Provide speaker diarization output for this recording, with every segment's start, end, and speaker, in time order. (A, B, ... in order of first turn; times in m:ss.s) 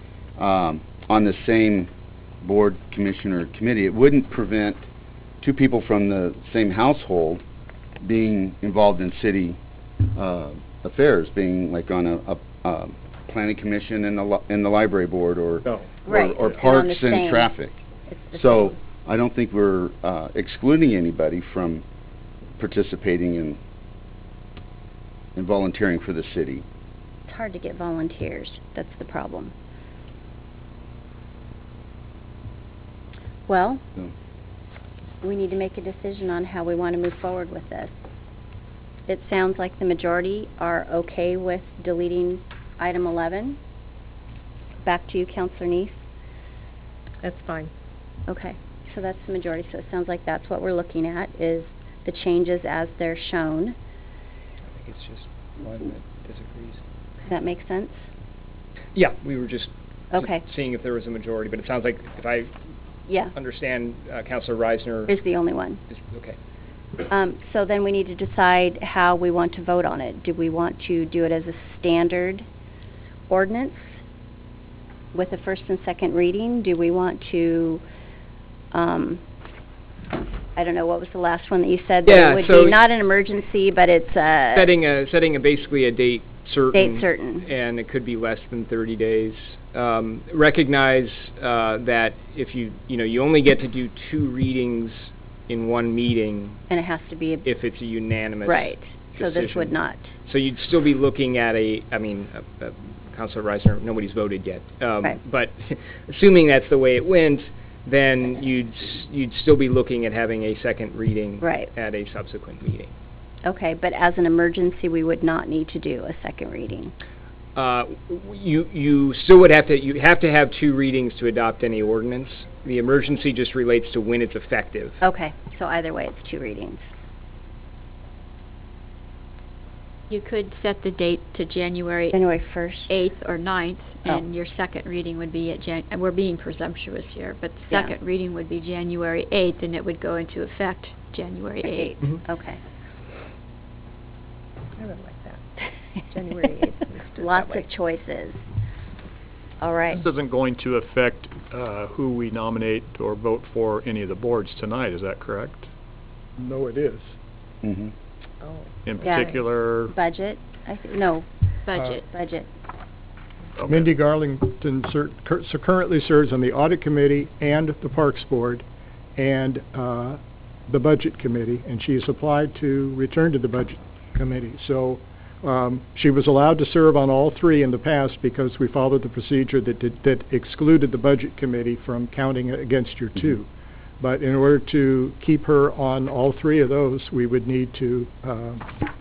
0:00.4-0:01.9 A
0:02.4-0:04.8 A
0:05.4-0:07.4 A
0:08.0-0:09.6 A
0:10.1-0:17.8 A
0:16.1-0:17.5 B
0:18.1-0:18.7 B
0:18.3-0:21.8 A
0:22.6-0:23.6 A
0:25.4-0:26.6 A
0:27.3-0:29.5 B
0:33.5-0:33.8 B
0:35.2-0:37.9 B
0:39.1-0:43.6 B
0:44.8-0:45.9 B
0:47.2-0:47.7 C
0:48.3-0:53.8 B
0:54.7-0:56.8 D
0:57.3-0:58.0 B
0:59.0-1:02.5 D
1:00.1-1:00.4 B
1:03.1-1:03.3 B
1:03.3-1:05.2 D
1:05.1-1:05.8 B
1:05.9-1:06.4 D
1:07.1-1:12.4 B
1:13.3-1:14.0 B
1:15.1-1:17.8 B
1:18.7-1:19.2 B
1:20.6-1:24.7 B
1:22.0-1:22.8 D
1:24.6-1:36.6 D
1:26.7-1:27.5 B
1:36.7-1:37.5 B
1:37.4-1:52.9 D
1:38.4-1:40.1 B
1:51.4-1:51.7 B
1:53.4-1:56.9 B
1:57.6-2:05.0 D
2:05.0-2:06.8 B
2:10.1-2:12.2 E
2:12.1-2:12.9 B
2:12.9-2:21.9 E
2:21.6-2:22.6 B
2:24.8-2:25.4 C
2:26.1-2:27.7 C
2:27.2-2:28.4 B
2:29.6-2:30.0 B
2:29.9-2:35.7 F
2:36.4-2:37.1 G
2:37.6-2:37.9 A
2:38.4-2:39.3 C
2:38.8-2:39.9 F
2:39.0-2:39.3 B
2:39.9-2:41.3 B
2:41.7-2:42.1 E
2:42.1-2:42.5 B
2:43.6-2:43.9 F
2:43.7-2:48.6 G
2:49.2-3:03.5 G
3:04.0-3:08.7 G